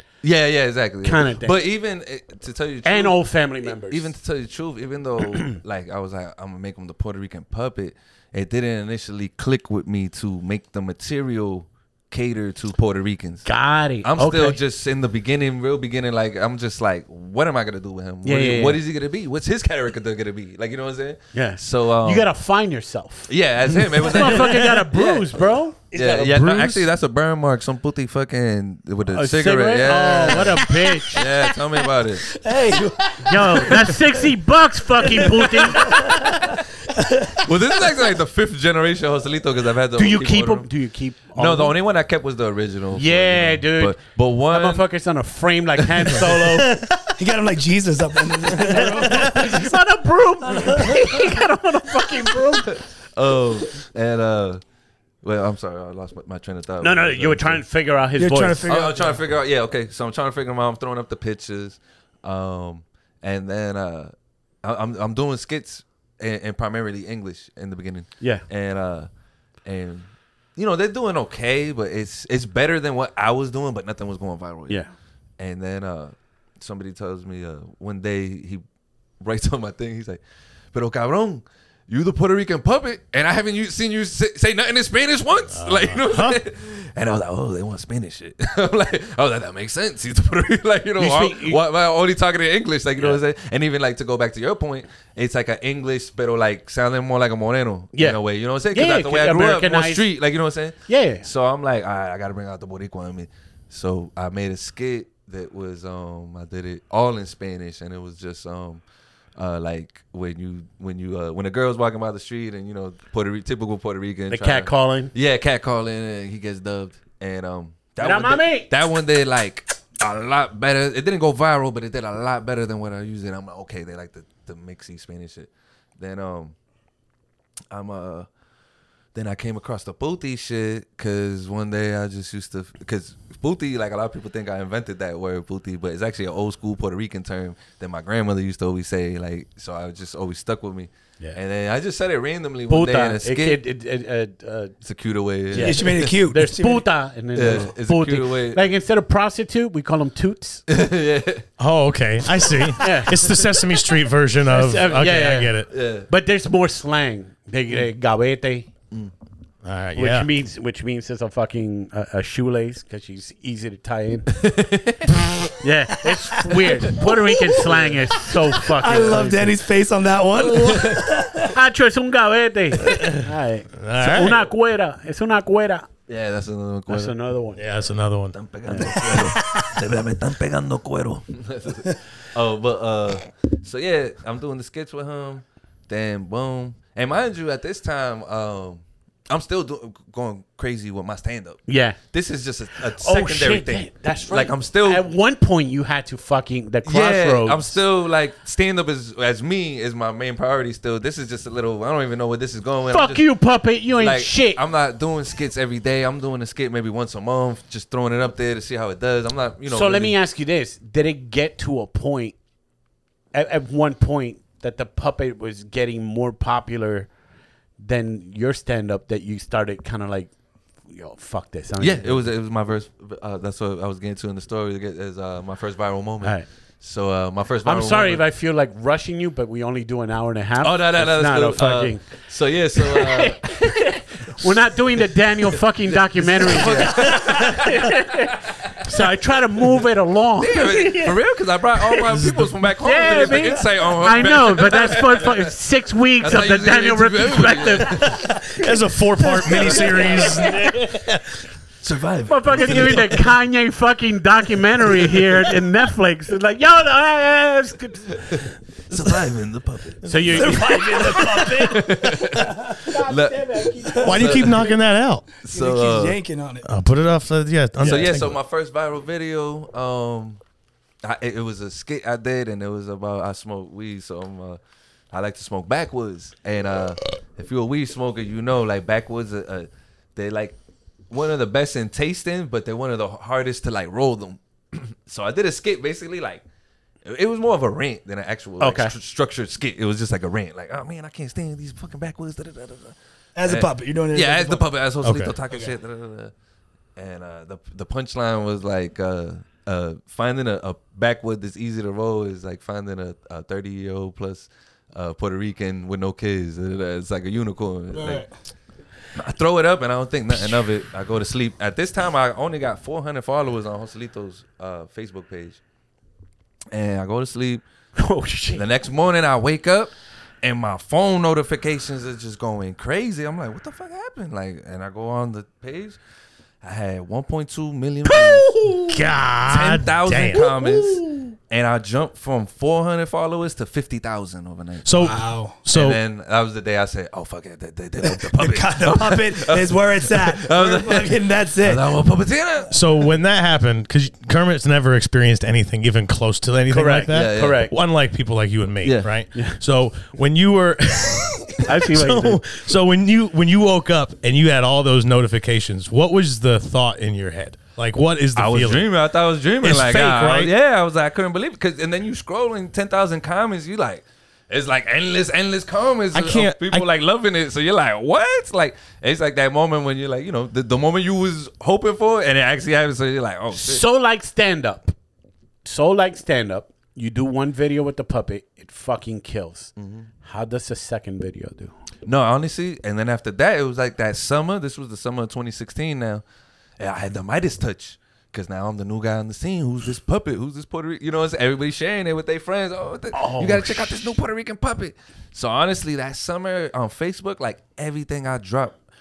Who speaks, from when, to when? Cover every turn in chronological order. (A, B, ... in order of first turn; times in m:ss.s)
0:00.2-0:13.5 A
0:01.0-0:01.6 B
0:02.8-0:04.1 B
0:13.4-0:14.6 B
0:14.0-0:22.3 A
0:18.2-0:18.8 B
0:21.3-0:23.3 B
0:23.3-0:32.3 A
0:24.0-0:25.8 B
0:26.0-0:26.8 C
0:29.1-0:31.3 B
0:30.9-0:31.3 D
0:32.2-0:34.3 D
0:33.2-0:36.1 B
0:35.0-0:37.8 D
0:37.4-0:40.7 A
0:40.0-0:41.7 B
0:41.3-0:44.8 A
0:42.9-0:46.8 B
0:46.3-0:47.1 C
0:47.2-0:49.7 D
0:48.6-0:52.8 B
0:48.7-0:49.3 C
0:50.5-0:51.0 D
0:52.6-0:54.6 A
0:55.2-0:57.6 A
0:56.8-0:58.7 B
0:58.2-0:59.2 D
0:58.6-1:09.1 A
1:09.6-1:14.8 A
1:15.4-1:18.6 A
1:19.2-1:20.2 A
1:20.7-1:48.8 A
1:25.5-1:26.4 C
1:31.0-1:31.6 B
1:37.9-1:40.1 B
1:40.9-1:41.2 B
1:49.4-2:06.5 A
1:54.3-1:55.1 B
1:58.0-1:58.7 B
2:07.7-2:08.3 A
2:09.1-2:23.6 A
2:22.7-2:24.8 B
2:24.8-2:26.1 A
2:25.5-2:30.6 B
2:25.6-2:26.8 D
2:27.3-2:28.6 A
2:30.7-2:31.5 A
2:31.6-2:35.7 C
2:32.8-2:33.3 B
2:34.4-2:38.7 B
2:35.7-2:36.1 A
2:39.6-2:40.3 C
2:39.9-2:44.3 B
2:44.3-2:45.5 A
2:45.6-2:49.6 B
2:47.0-2:47.6 D
2:47.6-2:48.0 A
2:48.6-2:51.6 D
2:50.3-2:51.2 A
2:51.4-2:55.9 B
2:52.9-2:53.2 C
2:53.8-2:54.4 C
2:56.1-2:57.1 A
2:56.9-2:57.6 B
2:57.5-2:58.4 C
2:58.3-3:15.0 A
2:58.7-2:59.0 B
2:59.0-2:59.8 D
3:11.7-3:12.0 B
3:13.0-3:17.8 B
3:16.8-3:23.2 A
3:22.9-3:24.6 B
3:24.0-3:30.1 A
3:29.7-3:32.4 B
3:33.3-3:37.1 B
3:37.8-3:40.3 B
3:40.9-3:42.3 B
3:41.8-3:48.2 A
3:47.6-3:52.2 B
3:50.6-3:53.8 A
3:52.7-4:01.2 B
3:55.9-3:58.2 A
3:58.8-3:59.0 A
4:00.4-4:05.5 A
4:02.1-4:02.5 C
4:02.8-4:08.6 B
4:06.2-4:08.4 A
4:08.5-4:11.3 C
4:09.2-4:10.6 B
4:09.4-4:10.6 A
4:11.8-4:13.3 A
4:12.3-4:18.2 B
4:18.1-4:24.6 A
4:20.0-4:21.4 B
4:20.3-4:22.9 D
4:22.8-4:24.8 B
4:23.9-4:24.2 D
4:24.0-4:25.3 C
4:25.4-4:26.2 A
4:25.4-4:26.7 D
4:26.6-4:28.4 C
4:27.8-4:28.1 B
4:27.8-4:30.4 A
4:31.0-4:34.6 A
4:35.1-4:40.6 A
4:41.1-4:46.4 A
4:47.0-4:56.3 A
4:48.6-4:48.9 B
4:53.4-4:54.6 D
4:55.0-4:55.3 C
4:57.0-5:08.2 A
5:07.9-5:08.3 D
5:09.1-5:15.6 A
5:16.7-5:17.6 A
5:18.0-5:18.6 B
5:18.5-5:26.0 A
5:26.6-5:28.6 A
5:28.0-5:29.1 B
5:28.9-5:30.4 C
5:29.5-5:35.2 A
5:30.3-5:31.3 B
5:34.8-5:36.0 C
5:35.0-5:35.6 D
5:35.7-5:42.7 A
5:38.0-5:41.8 D
5:42.7-5:58.9 C
5:46.7-5:47.7 B
5:47.1-5:47.6 A
5:48.8-5:49.1 A
5:51.6-5:52.4 B
5:58.3-6:13.8 A
5:59.6-6:00.5 C
6:06.1-6:06.8 C
6:13.5-6:14.9 B
6:15.6-6:21.7 B
6:19.8-6:20.1 A
6:22.0-6:26.2 A
6:26.8-6:38.7 A
6:33.1-6:34.1 B